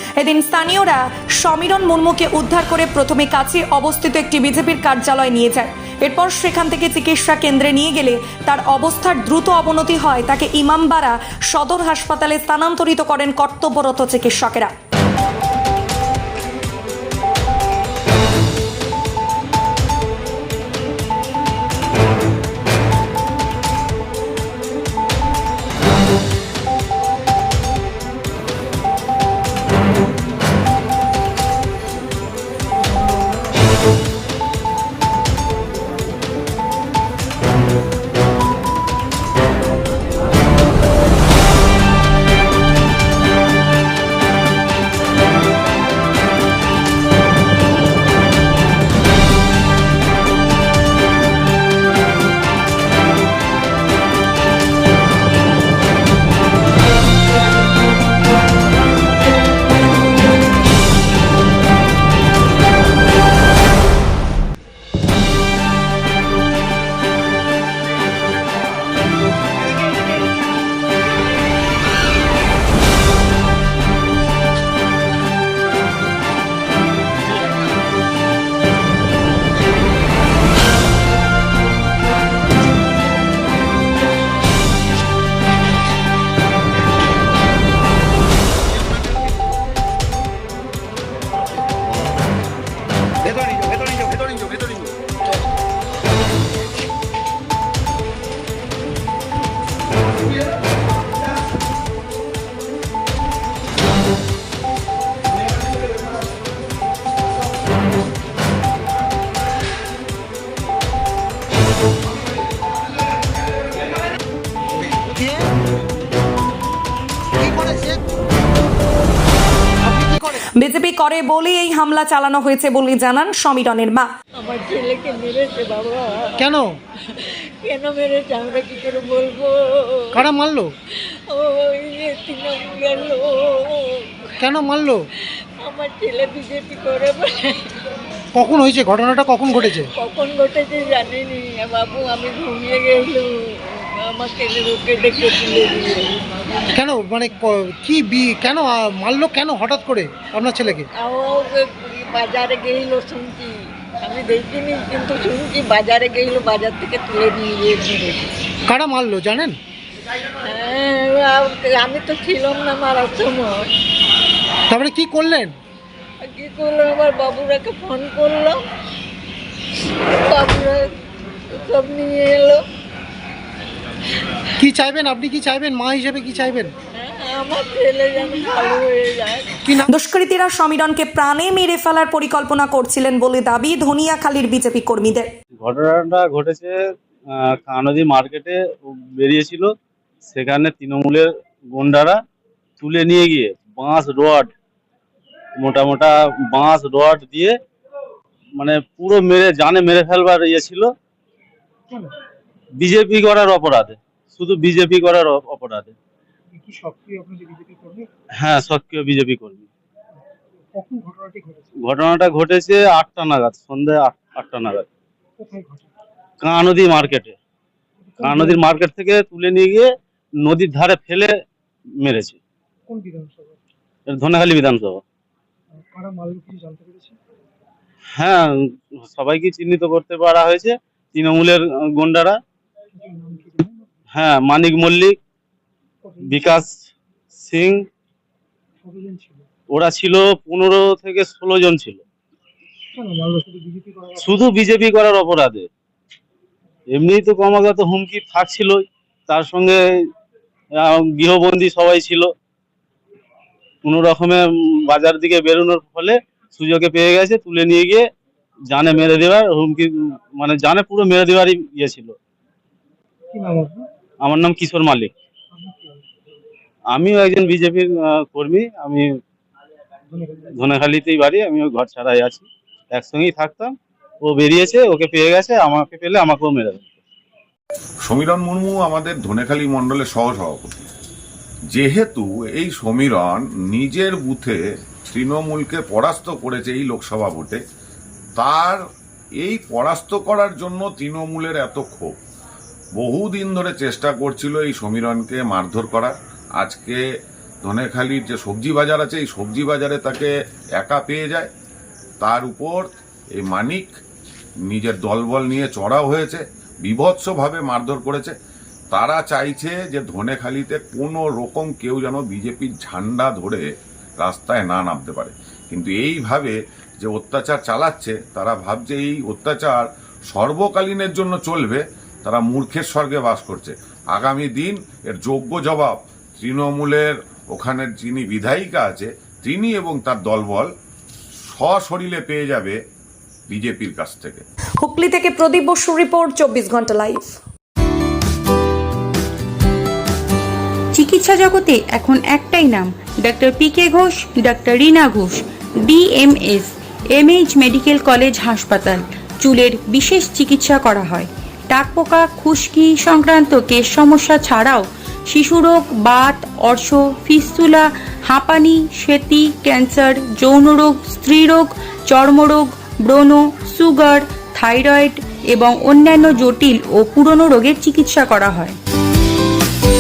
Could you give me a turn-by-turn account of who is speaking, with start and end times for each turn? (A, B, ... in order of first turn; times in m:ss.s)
0:00.2-0:14.7 A
1:55.1-1:55.5 B
1:57.4-1:58.0 B
1:59.8-2:00.4 B
2:00.6-2:04.1 A
2:04.4-2:06.4 C
2:06.4-2:06.7 B
2:07.1-2:10.2 C
2:10.2-2:10.7 B
2:11.0-2:14.1 C
2:14.4-2:15.0 B
2:15.6-2:17.8 C
2:18.3-2:19.9 B
2:20.0-2:26.1 C
2:26.8-2:30.9 B
2:31.0-2:38.2 C
2:38.7-2:39.6 B
2:40.4-2:43.7 C
2:44.7-2:45.6 B
2:46.2-2:48.6 C
2:49.8-2:50.9 C
2:51.6-2:52.6 C
2:54.6-2:56.7 B
2:57.0-2:59.6 C
2:59.9-3:05.3 A
3:05.6-3:06.7 D
3:07.4-3:08.6 D
3:09.2-3:09.7 D
3:10.3-3:12.2 D
3:12.8-3:14.5 D
3:15.6-3:17.6 D
3:18.6-3:20.9 D
3:22.8-3:26.0 D
3:26.7-3:28.0 B
3:28.4-3:29.7 D
3:31.8-3:34.9 D
3:36.4-3:37.4 D
3:38.2-3:39.9 D
3:40.4-3:41.3 D
3:42.0-3:42.4 D
3:44.1-3:45.0 D
3:48.2-3:48.5 D
3:49.0-3:52.4 D
3:53.3-3:53.7 B
3:54.1-3:55.2 D
3:56.2-3:56.7 D
3:57.4-3:57.8 D
3:59.7-4:02.0 D
4:04.2-4:05.7 D
4:06.9-4:09.8 D
4:10.8-4:12.3 D
4:13.8-4:18.0 D
4:18.7-4:22.2 D
4:23.4-4:23.8 B
4:24.2-4:25.1 D
4:26.9-4:29.1 D
4:30.6-4:37.0 D
4:38.0-4:40.9 E
4:41.7-4:47.6 E
4:48.4-4:48.8 E
4:49.4-4:52.2 E
4:53.0-4:57.0 E
4:57.6-5:01.5 E
5:02.2-5:03.9 E
5:04.7-5:08.4 E
5:08.9-5:30.7 E
5:31.5-5:32.8 E
5:33.5-5:34.4 E
5:34.8-5:37.2 A
5:40.9-6:08.8 F